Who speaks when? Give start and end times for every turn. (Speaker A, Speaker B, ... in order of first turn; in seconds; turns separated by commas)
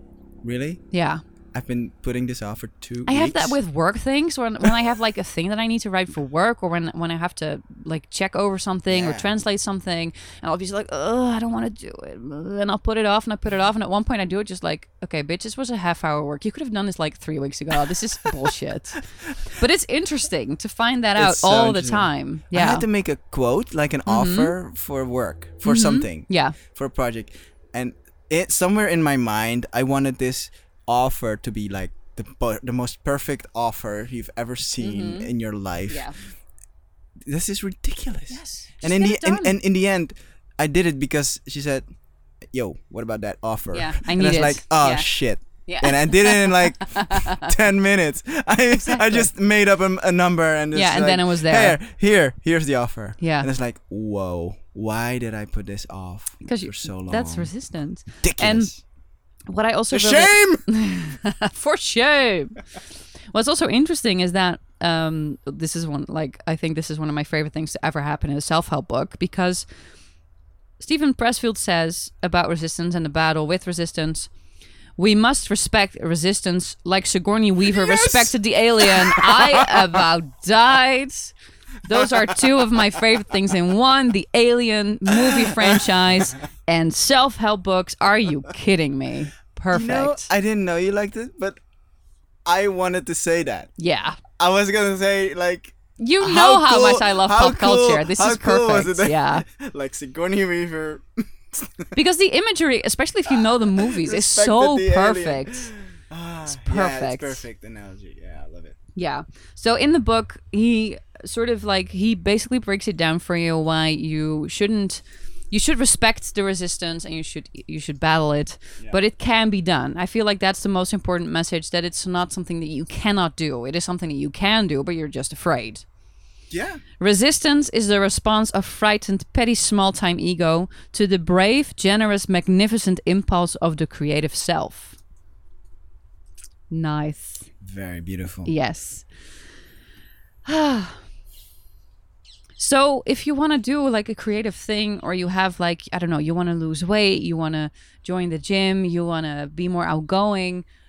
Speaker A: 0.4-0.8, Speaker B: 0.9-1.2, Speaker A: 1.5-3.6, Speaker B: 3.1-22.9, Speaker A: 8.9-9.3, Speaker A: 21.2-36.1, Speaker B: 24.1-24.5, Speaker B: 25.6-26.6, Speaker B: 34.8-35.3, Speaker B: 35.9-36.2, Speaker A: 37.3-41.8, Speaker B: 38.3-39.5, Speaker A: 42.5-57.5, Speaker B: 43.7-45.1, Speaker B: 45.7-47.5, Speaker B: 48.7-49.3, Speaker B: 50.7-51.8, Speaker B: 53.2-53.5, Speaker B: 56.4-58.7, Speaker A: 58.2-58.8, Speaker B: 59.5-62.6, Speaker A: 59.9-60.7, Speaker B: 63.3-69.7, Speaker B: 70.8-74.3, Speaker B: 75.0-81.3, Speaker A: 77.7-80.0, Speaker B: 81.9-90.3, Speaker A: 81.9-83.0, Speaker A: 85.1-86.3, Speaker A: 89.7-91.6, Speaker A: 92.5-93.7, Speaker B: 93.8-94.2, Speaker A: 94.4-102.0, Speaker B: 96.0-99.5, Speaker B: 102.0-105.7, Speaker A: 103.4-108.8, Speaker B: 106.5-107.4, Speaker B: 109.0-125.8, Speaker A: 126.5-126.8, Speaker B: 127.0-135.0, Speaker B: 136.7-137.5, Speaker A: 137.6-138.5, Speaker B: 138.5-139.1, Speaker B: 140.4-141.0, Speaker B: 142.6-150.7